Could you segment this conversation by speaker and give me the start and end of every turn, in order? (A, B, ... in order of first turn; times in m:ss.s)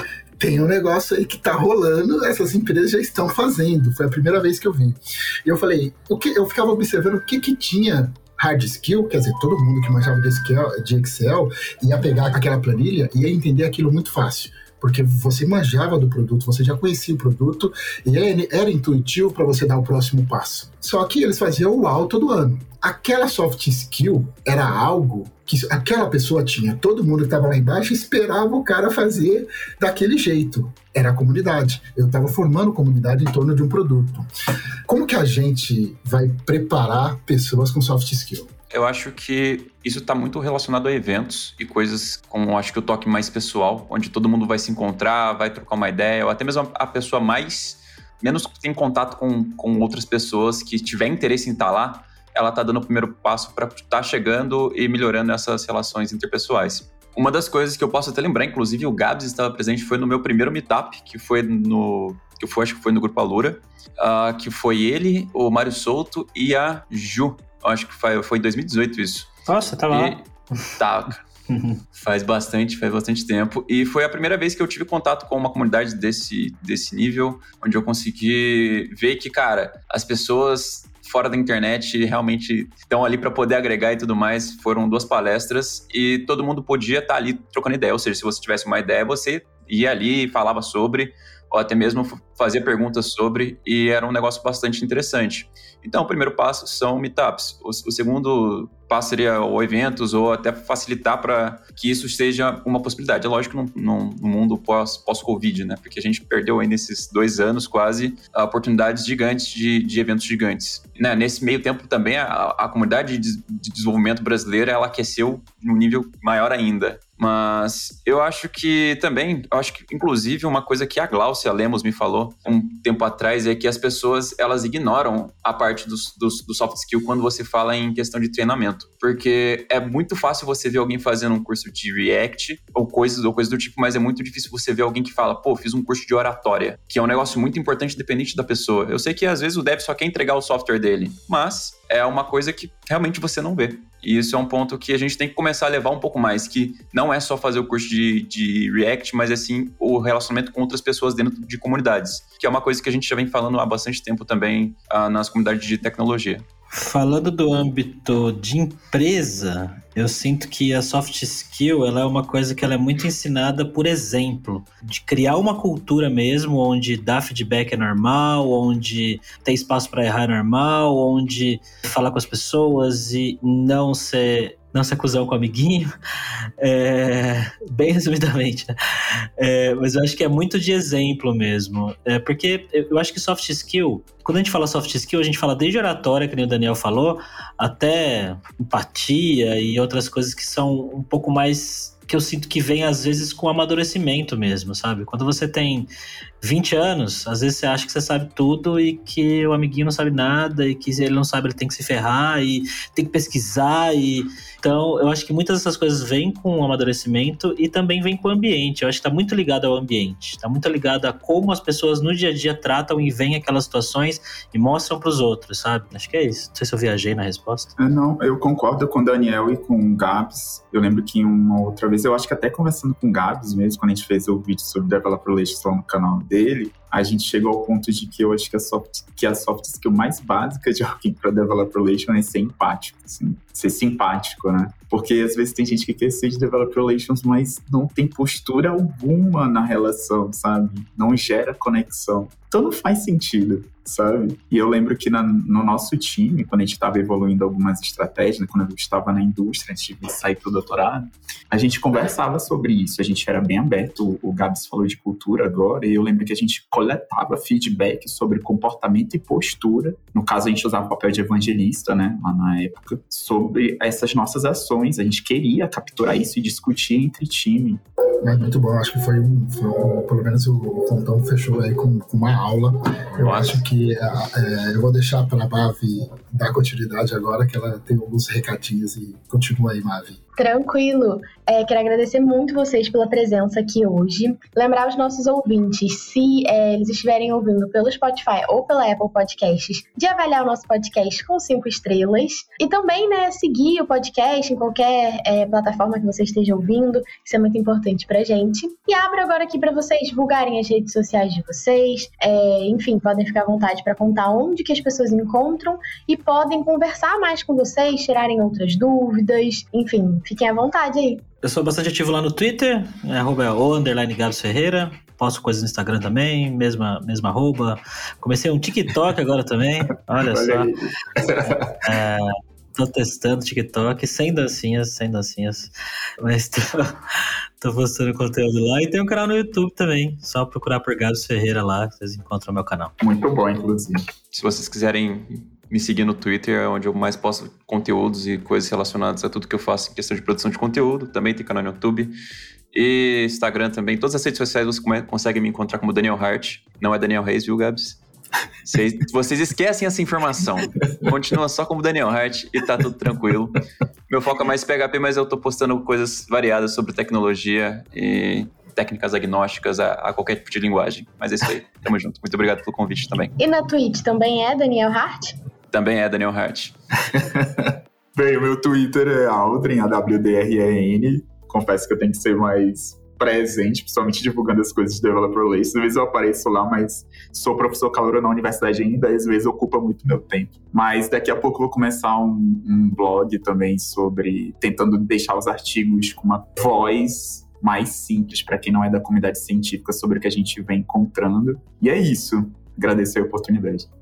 0:00.4-0:34.3 A
0:34.9-0:38.5 A
0:38.7-1:09.3 B
1:09.5-1:10.7 C
1:09.9-1:10.2 B
1:10.8-1:11.2 B
1:11.5-1:11.8 C
1:11.9-2:36.4 B
2:36.7-2:55.9 C
2:56.6-2:58.7 C
2:59.4-3:15.9 C
3:16.4-3:37.7 C
3:37.8-4:27.8 D
4:28.2-4:40.2 A
4:33.2-4:33.6 B
4:40.4-5:11.2 E
5:11.4-5:20.7 C
5:20.2-5:21.8 D
5:21.8-5:32.9 C
5:33.0-5:34.0 D
5:34.3-5:42.1 B
5:42.7-5:48.0 B
5:48.6-6:03.4 B
6:03.4-6:05.4 E
6:05.7-6:06.7 B
6:07.1-6:33.9 D